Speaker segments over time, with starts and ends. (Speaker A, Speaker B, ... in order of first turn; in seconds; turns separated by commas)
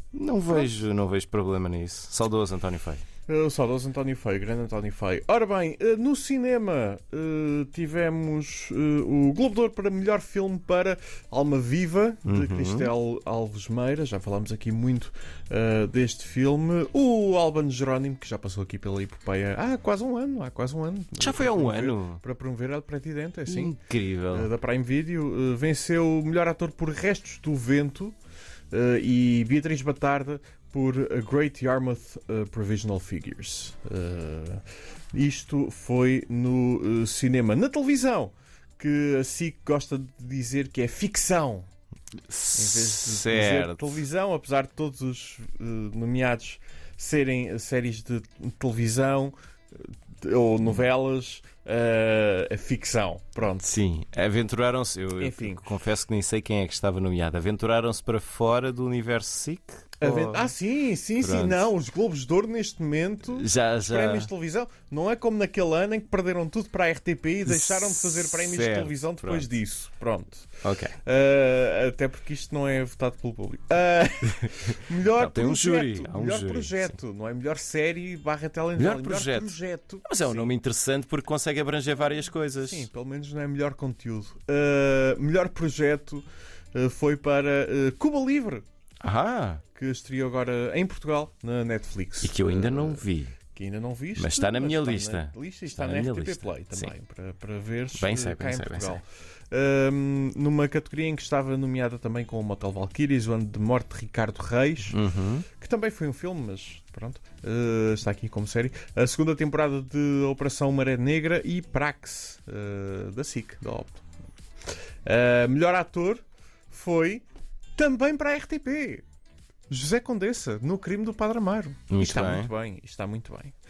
Speaker A: 0.1-3.0, Speaker B: 3.3-23.8, Speaker A: 12.2-12.9, Speaker A: 21.2-22.2, Speaker A: 23.5-24.5, Speaker B: 24.3-28.2, Speaker B: 28.7-41.7, Speaker A: 42.3-44.0, Speaker B: 42.5-53.8, Speaker A: 53.6-60.5, Speaker B: 55.2-55.7, Speaker B: 60.0-80.6, Speaker A: 61.2-61.7, Speaker A: 63.3-64.3, Speaker A: 67.4-69.5, Speaker A: 70.6-70.9, Speaker A: 74.4-77.0, Speaker A: 78.8-82.9, Speaker B: 82.6-88.7, Speaker A: 89.0-89.6, Speaker B: 89.7-105.0, Speaker A: 92.2-93.3, Speaker A: 94.2-96.9, Speaker A: 98.0-99.0, Speaker A: 104.9-105.5, Speaker B: 105.5-114.0, Speaker B: 115.0-119.0, Speaker B: 119.7-123.5, Speaker A: 121.9-122.5